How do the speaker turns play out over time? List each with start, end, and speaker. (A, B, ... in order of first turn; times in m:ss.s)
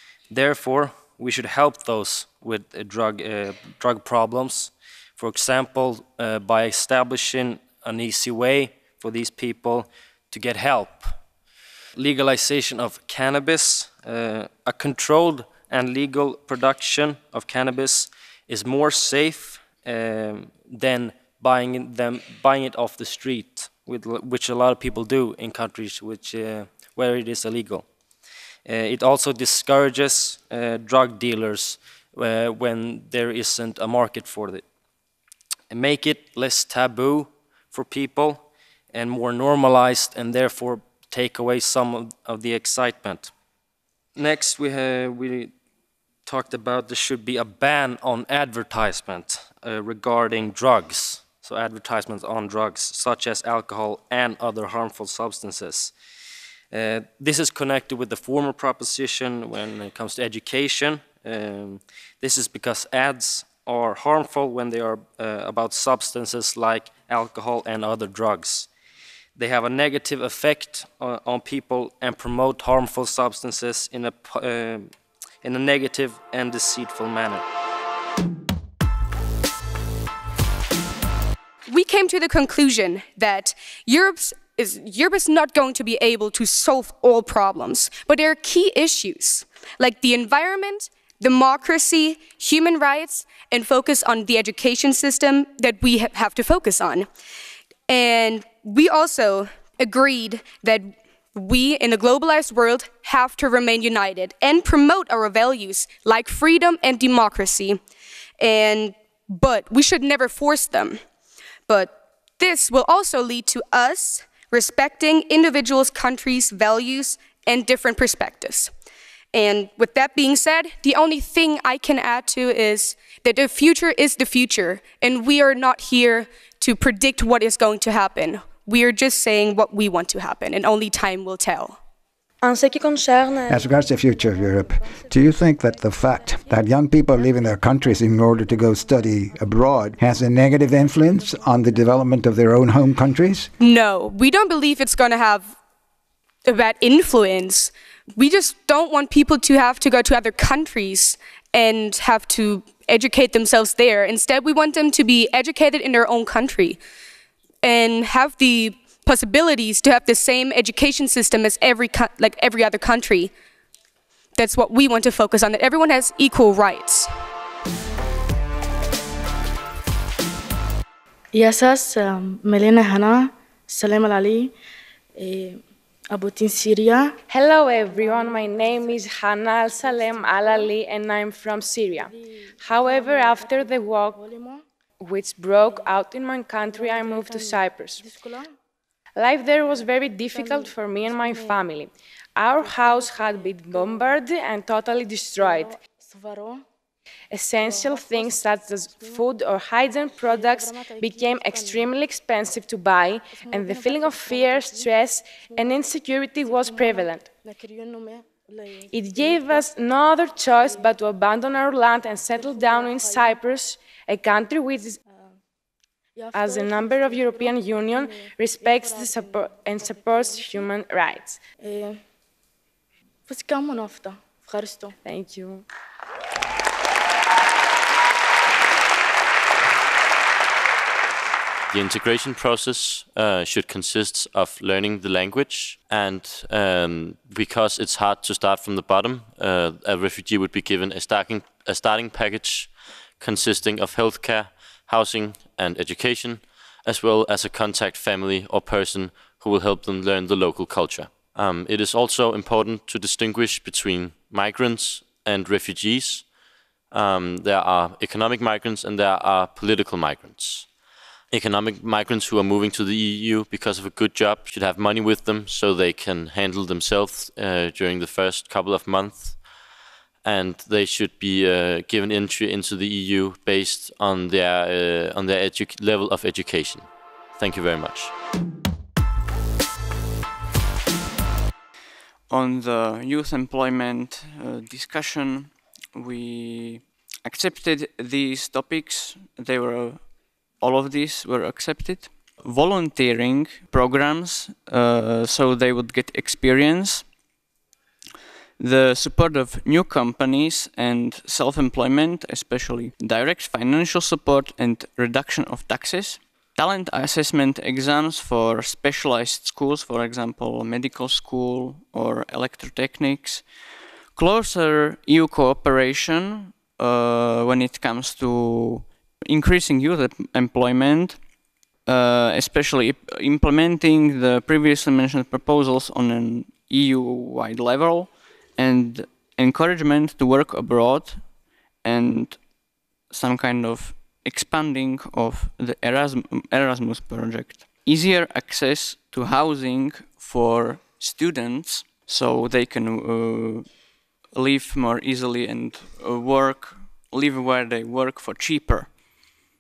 0:00.3-0:11.2 A
0:12.0-0:27.8 A
0:28.7-0:34.6 A
0:35.7-0:43.3 A
0:44.2-0:45.5 A
0:46.3-0:55.9 A
0:56.7-1:08.7 A
1:09.4-1:14.9 A
1:15.4-1:17.4 A
1:21.7-1:37.1 B
1:37.9-1:47.8 B
1:48.4-1:51.0 B
1:51.7-1:58.7 B
1:59.3-2:11.8 B
2:13.5-2:23.5 C
2:23.6-2:25.6 B
2:26.4-2:36.8 B
2:37.6-2:43.3 B
2:44.4-2:47.1 B
2:51.3-2:54.5 D
2:55.2-2:57.2 D
2:57.3-3:04.2 E
2:57.8-2:59.1 D
2:59.6-3:00.7 D
3:02.0-3:04.6 D
3:05.0-3:08.0 E
3:06.7-3:08.5 D
3:09.2-3:15.8 E
3:09.7-3:11.6 D
3:12.6-3:14.2 D
3:15.4-3:16.6 D
3:17.3-3:27.3 E
3:17.6-3:19.3 D
3:20.2-3:21.9 D
3:23.3-3:25.8 D
3:26.4-3:29.7 D
3:28.9-3:35.0 E
3:30.4-3:30.9 D
3:32.3-3:33.4 D
3:35.1-3:35.3 D
3:36.2-3:40.7 D
3:36.3-3:41.4 E
3:41.6-3:42.0 D
3:43.3-3:45.0 D
3:45.0-3:45.6 E
3:51.7-4:16.3 F
4:16.9-4:20.7 F
4:21.3-4:29.4 F
4:30.2-4:38.1 F
4:42.3-4:57.1 G
4:58.6-5:13.6 G
5:14.1-5:21.3 G
5:21.8-5:32.4 G
5:33.1-5:49.3 G